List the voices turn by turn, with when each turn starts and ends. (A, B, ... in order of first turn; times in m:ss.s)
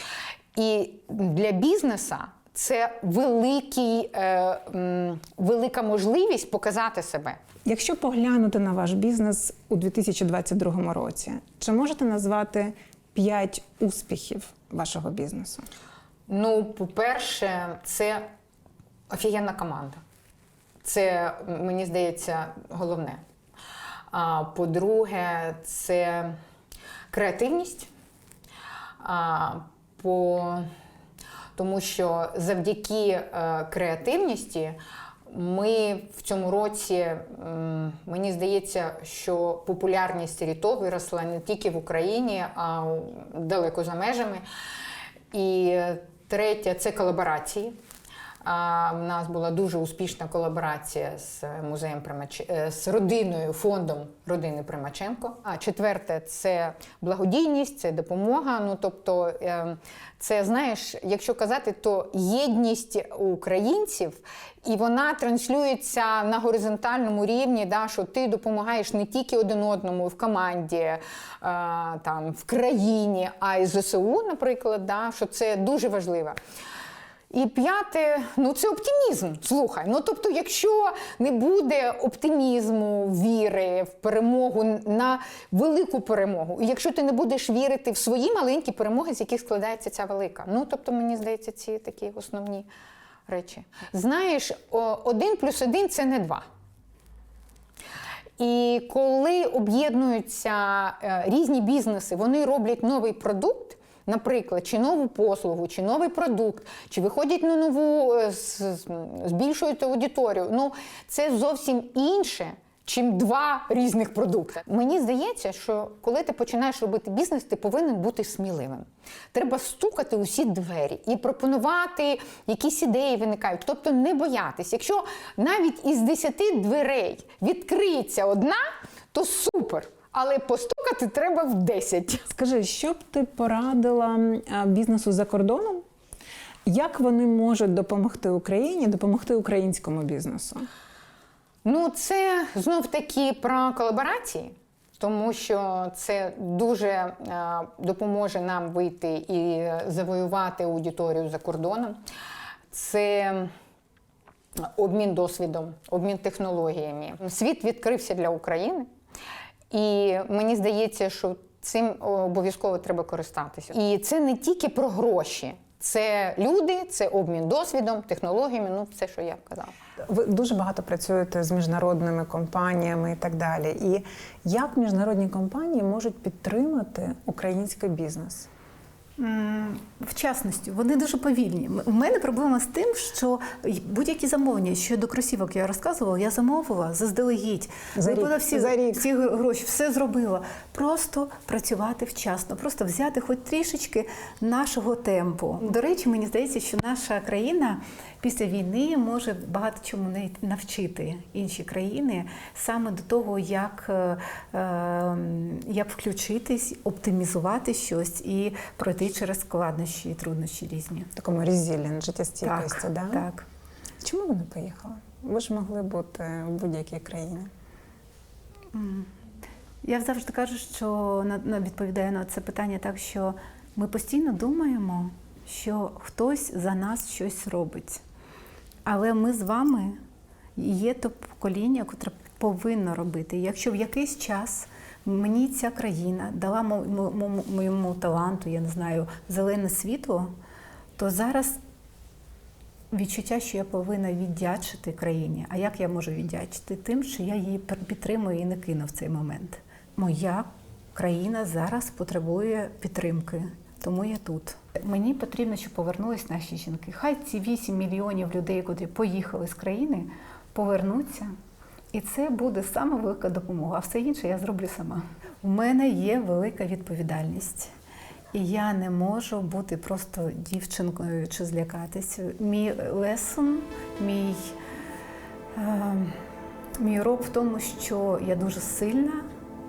0:00.5-0:07.4 A
0:07.6-0:15.6 B
0:16.3-0:18.3 A
0:19.1-0:20.0 A
0:20.8-0:23.2 A
0:24.1-0:26.4 A
0:27.1-0:27.9 A
0:29.0-0:30.7 A
0:31.6-0:44.4 A
0:45.3-0:47.8 A
0:48.4-1:16.4 A
1:17.3-1:32.7 A
1:33.3-1:36.4 A
1:38.4-2:12.2 A
2:12.3-2:15.8 B
2:16.6-2:20.7 B
2:21.6-2:32.0 A
2:32.7-2:33.5 A
2:34.6-2:38.9 A
2:39.7-2:49.7 A
2:50.0-2:58.5 B
2:59.2-3:31.1 C
3:08.0-3:09.0 B
3:31.2-3:33.2 B
3:32.4-3:33.4 C
3:34.0-3:37.5 B
3:38.7-3:39.1 C
3:39.8-3:48.0 C
3:48.8-3:50.0 C
3:50.6-4:00.3 C
4:01.0-4:01.6 C
4:02.9-4:21.3 C
4:21.9-4:27.7 C
4:28.3-4:34.6 C
4:35.5-4:36.2 C
4:36.8-4:39.3 C